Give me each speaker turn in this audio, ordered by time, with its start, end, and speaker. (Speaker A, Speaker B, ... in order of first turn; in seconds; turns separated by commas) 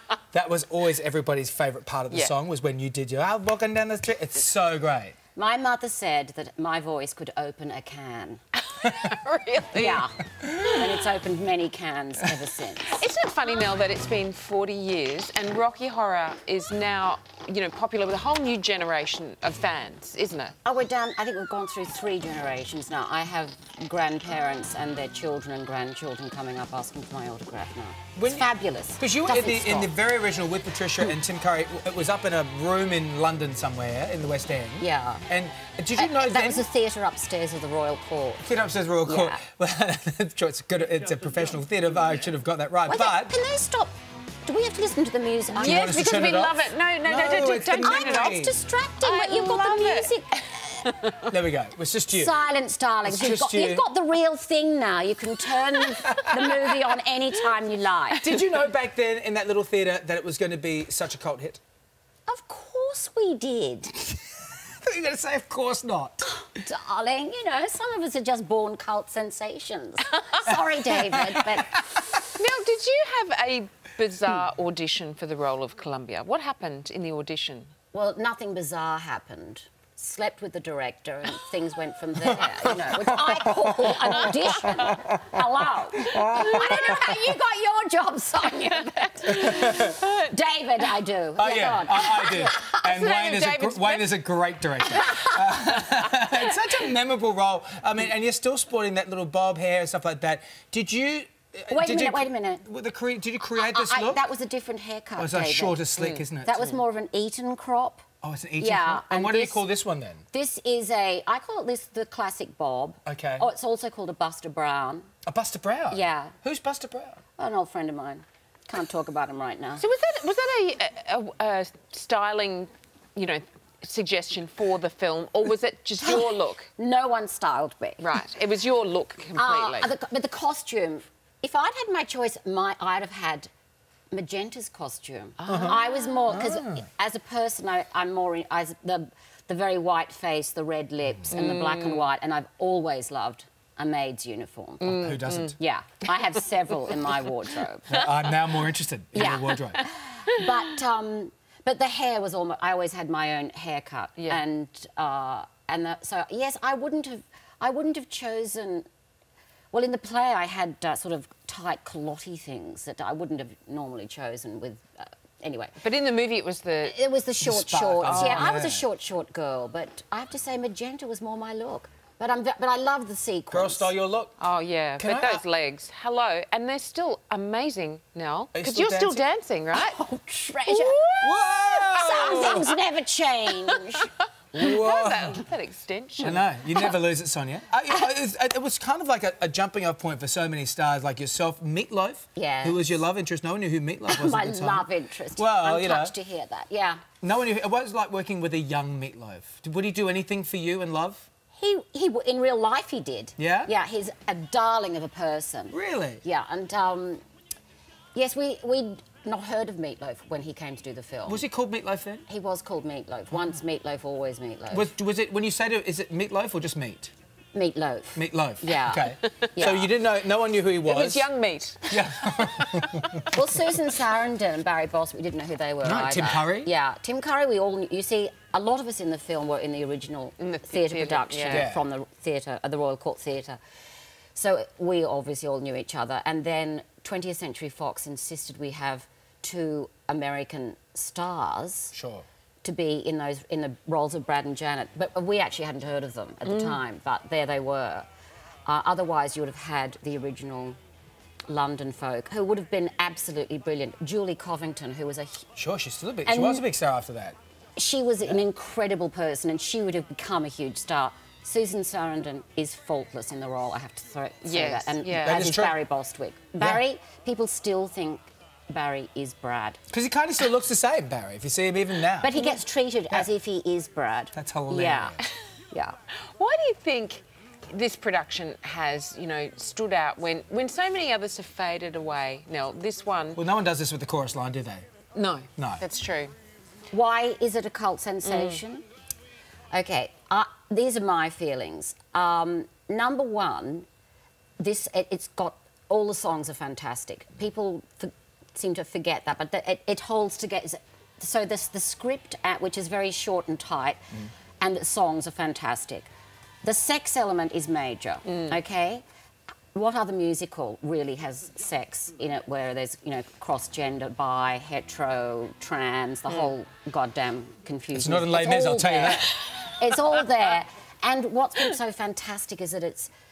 Speaker A: 0.3-5.2, Speaker B: 5.3-8.4, Speaker C: 8.6-10.1, Speaker B: 9.7-13.0, Speaker A: 10.4-10.9, Speaker C: 12.8-20.5, Speaker B: 20.6-29.9, Speaker A: 28.1-28.5, Speaker A: 29.0-36.6, Speaker B: 34.8-35.3, Speaker B: 36.0-38.5, Speaker A: 38.4-43.4, Speaker B: 39.0-39.4, Speaker B: 42.9-43.9, Speaker B: 44.4-46.0, Speaker A: 45.6-48.5, Speaker C: 45.6-48.5, Speaker B: 47.5-50.9, Speaker C: 49.0-51.2, Speaker A: 51.3-52.4, Speaker B: 52.1-58.3, Speaker A: 53.0-53.9, Speaker A: 55.8-56.7, Speaker A: 58.2-61.6, Speaker B: 62.3-64.2, Speaker A: 64.8-66.3, Speaker B: 66.4-72.0, Speaker A: 71.0-71.9, Speaker C: 72.3-77.7, Speaker B: 77.9-92.8, Speaker A: 82.3-83.1, Speaker C: 88.8-90.3, Speaker A: 89.3-90.0, Speaker A: 91.3-104.2, Speaker C: 92.5-94.1, Speaker B: 95.0-95.3, Speaker B: 101.7-102.6, Speaker B: 103.5-108.0, Speaker A: 105.2-106.8, Speaker A: 108.2-110.2, Speaker B: 108.6-109.6, Speaker B: 110.3-115.1, Speaker A: 113.0-113.5, Speaker A: 115.2-117.2, Speaker B: 115.9-116.3, Speaker B: 117.4-119.8, Speaker C: 119.8-126.7, Speaker B: 126.0-128.0, Speaker C: 128.0-129.9, Speaker B: 129.3-133.5, Speaker B: 134.1-148.1, Speaker C: 135.4-136.3, Speaker A: 135.5-136.8, Speaker C: 141.3-142.1, Speaker C: 144.8-145.5, Speaker A: 145.0-145.6, Speaker A: 147.9-149.8, Speaker B: 149.1-158.9, Speaker B: 159.7-165.8, Speaker C: 165.8-167.0, Speaker B: 166.8-173.9, Speaker A: 167.4-168.8, Speaker A: 173.5-174.3, Speaker C: 174.4-180.0, Speaker A: 175.0-175.4, Speaker A: 178.5-179.2, Speaker B: 179.7-184.8, Speaker C: 180.7-182.7, Speaker A: 181.2-182.7, Speaker C: 183.7-184.1, Speaker A: 184.5-185.4, Speaker C: 184.6-186.5, Speaker A: 186.2-196.1, Speaker B: 192.3-193.0, Speaker B: 194.1-197.0, Speaker A: 197.2-201.3, Speaker B: 201.6-207.2, Speaker A: 203.4-203.7, Speaker A: 205.7-206.2, Speaker B: 208.1-211.4, Speaker A: 211.2-212.2, Speaker B: 212.3-214.9, Speaker A: 214.7-217.1, Speaker B: 217.5-219.9, Speaker A: 218.1-221.2, Speaker C: 220.8-222.0, Speaker A: 221.9-223.4, Speaker B: 223.3-233.6, Speaker A: 225.8-226.7, Speaker C: 230.4-231.7, Speaker A: 231.5-231.8, Speaker B: 234.3-241.9, Speaker A: 241.9-242.2, Speaker B: 242.6-248.1, Speaker C: 246.4-246.8, Speaker B: 248.7-250.8, Speaker B: 251.5-255.5, Speaker A: 255.6-257.4, Speaker B: 256.2-256.6, Speaker B: 257.8-269.8, Speaker C: 264.4-265.5, Speaker A: 265.2-265.8, Speaker A: 269.9-272.4, Speaker B: 272.2-275.2, Speaker A: 274.3-275.2, Speaker C: 276.2-283.4, Speaker A: 283.4-284.9, Speaker C: 285.1-286.3, Speaker A: 285.6-285.8, Speaker B: 286.9-288.8, Speaker C: 288.2-288.6, Speaker B: 289.7-293.9, Speaker B: 294.6-306.1, Speaker B: 306.6-309.0, Speaker C: 308.2-308.6, Speaker B: 309.7-323.1, Speaker A: 317.9-319.3